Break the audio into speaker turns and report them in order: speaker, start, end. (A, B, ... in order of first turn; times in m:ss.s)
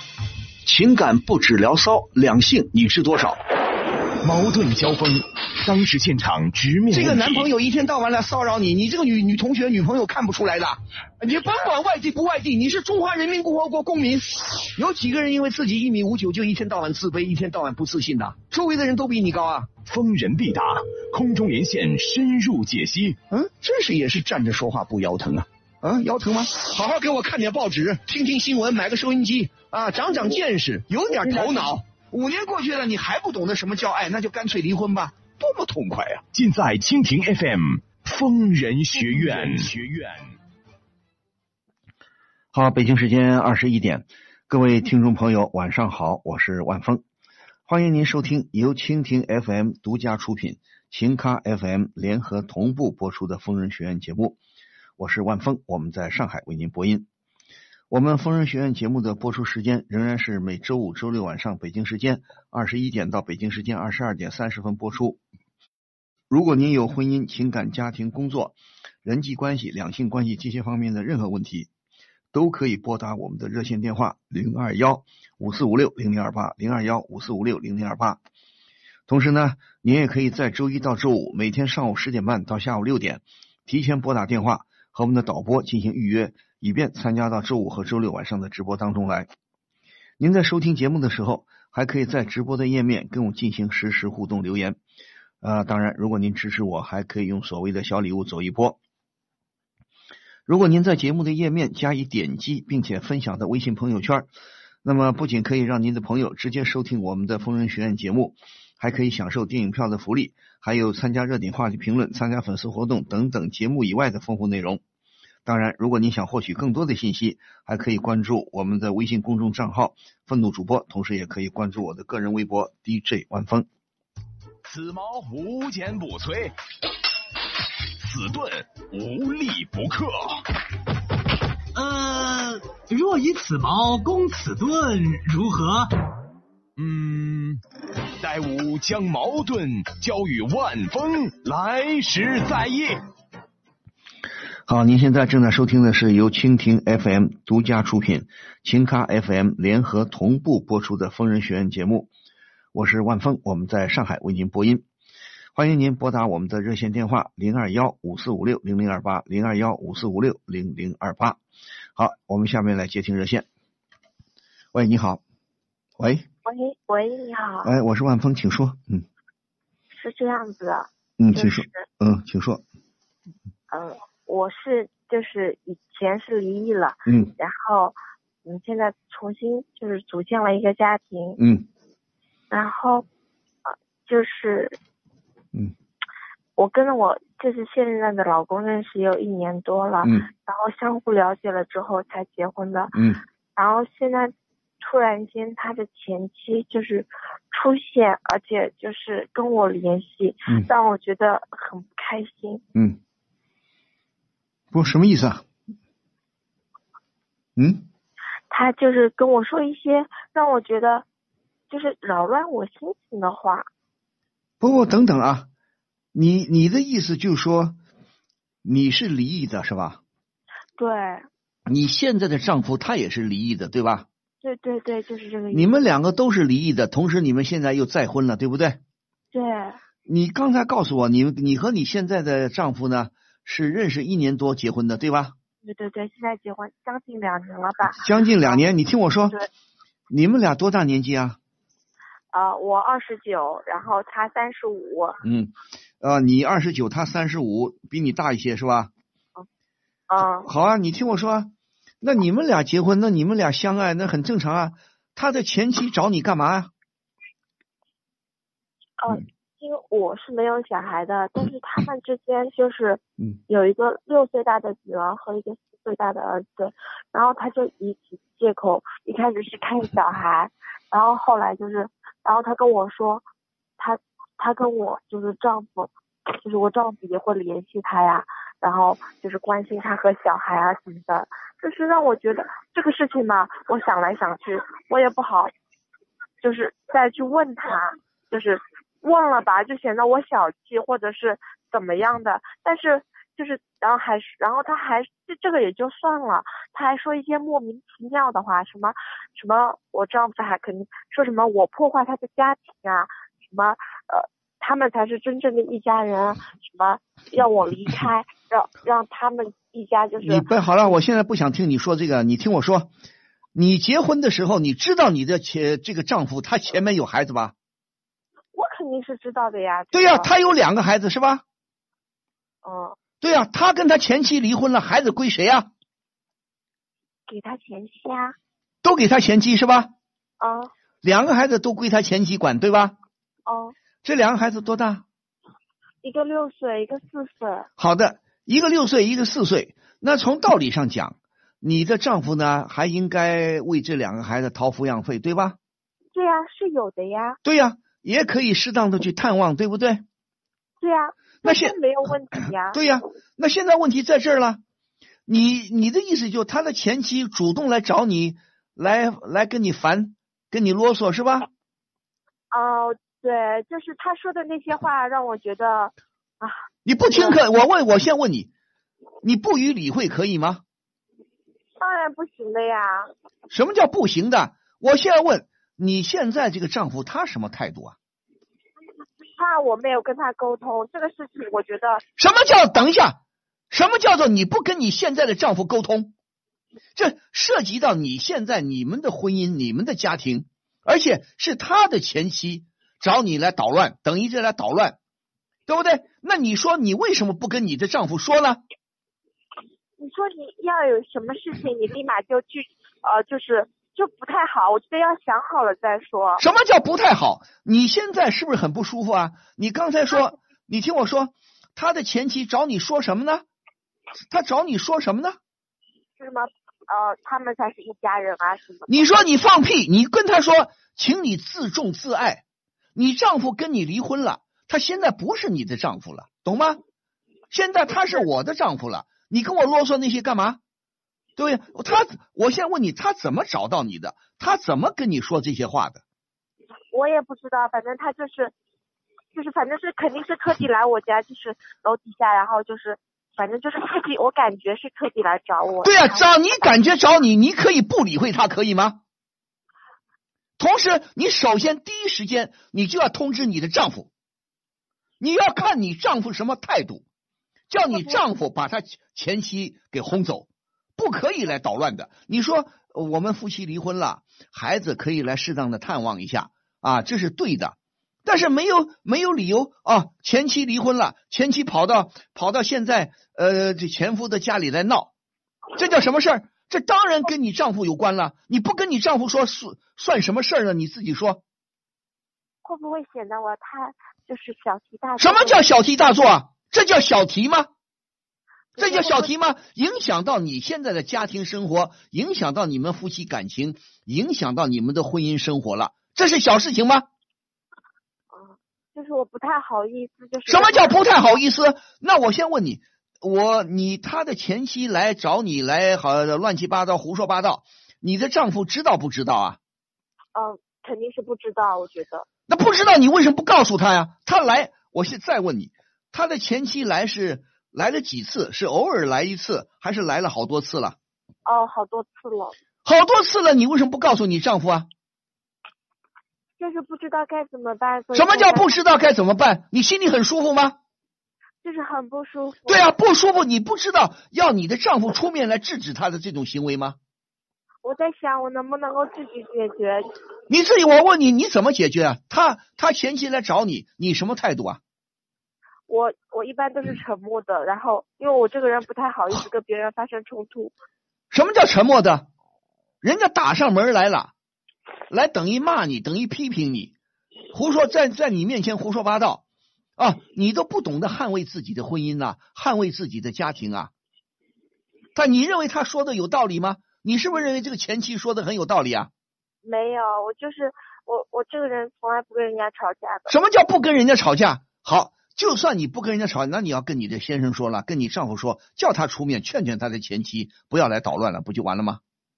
0:00.7-0:03.4 A
0:04.2-0:07.5 B
0:06.9-0:19.7 A
0:19.8-0:23.2 B
0:23.3-0:36.2 A
0:36.3-0:40.2 B
0:42.5-0:47.0 C
0:47.7-0:54.4 C
0:55.0-0:57.1 C
0:57.9-1:05.2 C
1:06.3-1:11.7 C
1:12.3-1:18.2 C
1:19.1-1:29.3 C
1:30.2-1:34.8 C
1:35.4-1:38.8 C
1:40.5-1:44.3 C
1:44.8-1:54.8 C
1:55.5-2:03.7 C
2:04.6-2:06.5 B
2:08.0-2:10.4 B
2:11.8-2:15.9 D
2:16.8-2:17.6 B
2:18.2-2:23.0 B
2:24.7-2:32.1 C
2:32.7-2:34.8 C
2:35.5-2:41.4 C
2:42.0-2:43.5 C
2:44.7-2:45.2 C
2:46.0-2:46.3 C
2:46.4-2:47.7 E
2:47.6-2:49.0 C
2:49.9-2:51.9 E
2:51.2-2:52.6 C
2:53.7-3:01.4 E
2:57.1-2:57.3 C
3:01.4-3:01.6 C
3:02.5-3:03.0 E
3:03.7-3:04.8 E
3:06.6-3:12.9 E
3:10.0-3:10.3 C
3:12.9-3:13.2 C
3:13.6-3:22.6 E
3:24.7-3:25.4 C
3:27.6-3:27.8 C
3:28.5-3:31.0 E
3:31.7-3:33.7 E
3:34.6-3:35.5 C
3:36.1-3:37.8 C
3:38.6-3:40.0 C
3:40.8-3:41.3 E
3:41.7-3:44.1 C
3:44.4-3:45.8 E
3:45.5-3:48.8 C
3:49.3-3:49.8 E
3:50.1-3:55.4 C
3:55.6-3:58.7 E
3:58.0-3:59.4 C
4:00.1-4:01.4 C
4:02.3-4:05.2 E
4:05.2-4:08.9 C
4:10.1-4:10.5 E
4:10.4-4:16.7 C
4:19.0-4:33.2 E
4:33.8-4:45.5 E
4:46.4-5:10.5 E
5:10.2-5:12.9 C
5:13.6-5:17.5 C
5:18.5-5:20.3 E
5:19.9-5:21.4 C
5:22.6-5:23.0 E
5:23.2-5:25.7 C
5:27.3-5:28.4 E
5:28.8-5:29.9 C
5:30.4-5:30.7 E
5:31.0-5:33.0 C
5:33.5-5:33.7 E
5:34.0-5:35.0 C
5:36.0-5:37.7 E
5:37.8-5:45.6 C
5:46.1-5:47.4 E
5:47.4-5:50.0 C
5:50.8-5:52.8 E
5:51.4-5:51.8 C
5:52.7-5:54.6 C
5:55.3-6:01.5 C
6:02.5-6:06.6 E
6:06.8-6:08.5 C
6:07.1-6:07.4 E
6:09.2-6:10.6 C
6:11.8-6:13.1 E
6:13.5-6:18.0 C
6:19.4-6:22.0 E
6:22.2-6:23.2 C
6:23.7-6:26.1 C
6:27.0-6:35.0 C
6:35.7-6:38.6 C
6:40.0-6:46.4 E
6:46.4-6:53.4 C
6:54.3-6:55.4 C
6:56.2-6:58.9 E
6:58.9-7:02.4 C
7:03.0-7:06.8 C
7:07.5-7:10.6 C
7:11.4-7:16.0 C
7:16.9-7:18.5 E
7:19.3-7:26.7 E
7:25.8-7:29.0 C
7:30.6-7:34.1 C
7:35.2-7:37.0 C
7:37.7-7:55.1 C
7:37.8-7:38.2 E
7:55.8-8:01.4 C
8:02.6-8:05.6 E
8:05.2-8:07.7 C
8:08.8-8:09.3 E
8:08.8-8:17.1 C
8:18.3-8:21.0 E
8:20.5-8:29.6 C
8:30.4-8:32.3 E
8:32.5-8:41.0 C
8:41.5-8:42.6 E
8:42.8-8:44.9 C
8:46.6-8:48.7 E
8:48.1-8:50.8 C
8:51.6-8:52.9 E
8:52.7-8:57.0 C
8:57.8-9:00.1 E
9:00.5-9:04.8 C
9:05.9-9:10.7 E
9:11.3-9:12.3 C
9:13.0-9:14.3 C
9:15.1-9:16.9 C
9:17.5-9:19.4 C
9:20.0-9:23.9 C
9:25.2-9:29.1 C
9:29.6-9:33.4 E
9:33.3-9:42.0 C